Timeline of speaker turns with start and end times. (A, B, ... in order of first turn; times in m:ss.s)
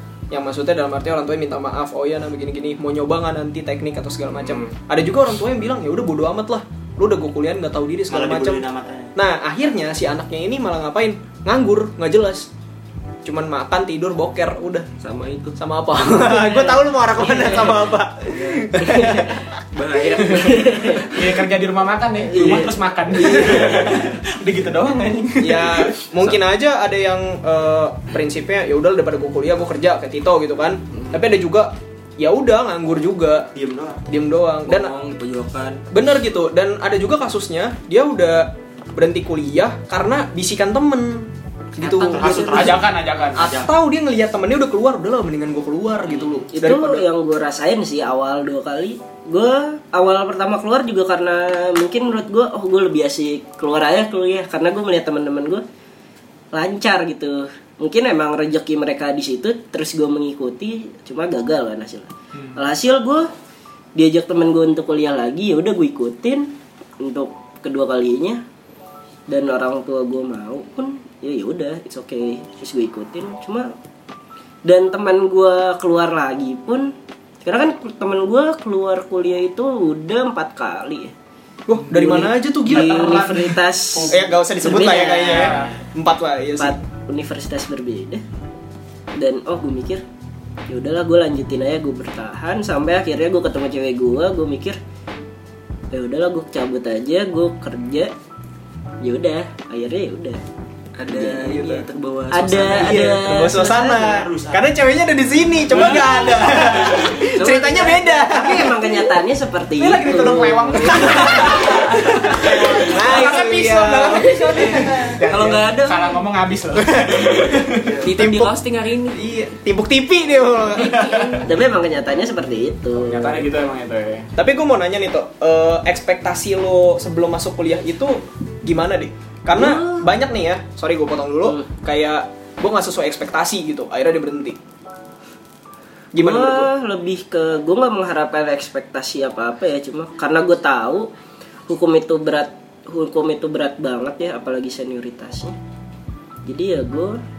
0:00.3-0:12.5 A
0:08.1-0:09.1 B
0:13.2-0:14.9 A
0:15.0-0:15.6 C
0:15.6-0:19.4 A
0:17.3-0:21.1 C
0:20.3-0:21.1 D
0:20.3-0:26.1 E
0:22.2-0:23.9 D
0:25.4-0:33.5 A
0:30.9-0:31.2 C
0:33.5-0:34.0 B
0:34.1-0:34.9 A
0:34.7-0:35.8 C
0:35.9-0:47.0 A
0:41.8-0:42.8 C
0:41.9-0:43.7 B
0:42.3-0:43.5 E
0:46.5-0:55.6 D
0:56.5-1:03.3 D
1:02.3-1:02.6 E
1:04.0-1:08.4 D
1:09.3-1:13.7 D
1:14.6-1:21.1 D
1:21.7-1:23.5 A
1:21.9-1:25.7 D
1:22.7-1:24.3 E
1:24.1-1:26.8 A
1:25.3-1:25.8 E
1:26.6-1:28.2 D
1:29.2-1:30.0 D
1:30.7-1:34.8 D
1:35.9-1:38.1 D
1:39.0-1:40.4 D
1:41.0-1:43.2 C
1:41.1-1:41.8 D
1:41.4-1:41.8 A
1:42.3-1:44.2 D
1:42.7-1:49.0 A
1:43.8-1:44.7 B
1:45.8-1:46.3 E
1:45.9-1:46.9 B
1:47.0-1:52.8 D
1:47.4-1:47.9 C
1:49.8-1:58.0 E
1:51.1-1:51.6 A
1:52.4-1:55.1 A
1:55.2-1:56.2 C
1:56.8-1:58.6 A
1:58.0-1:59.2 C
1:59.1-2:01.4 A
2:00.8-2:01.4 C
2:01.1-2:03.5 D
2:03.0-2:04.3 E
2:04.4-2:14.6 A
2:09.5-2:10.1 D
2:16.1-2:16.7 A
2:16.2-2:21.1 D
2:21.7-2:25.6 D
2:26.5-2:27.2 D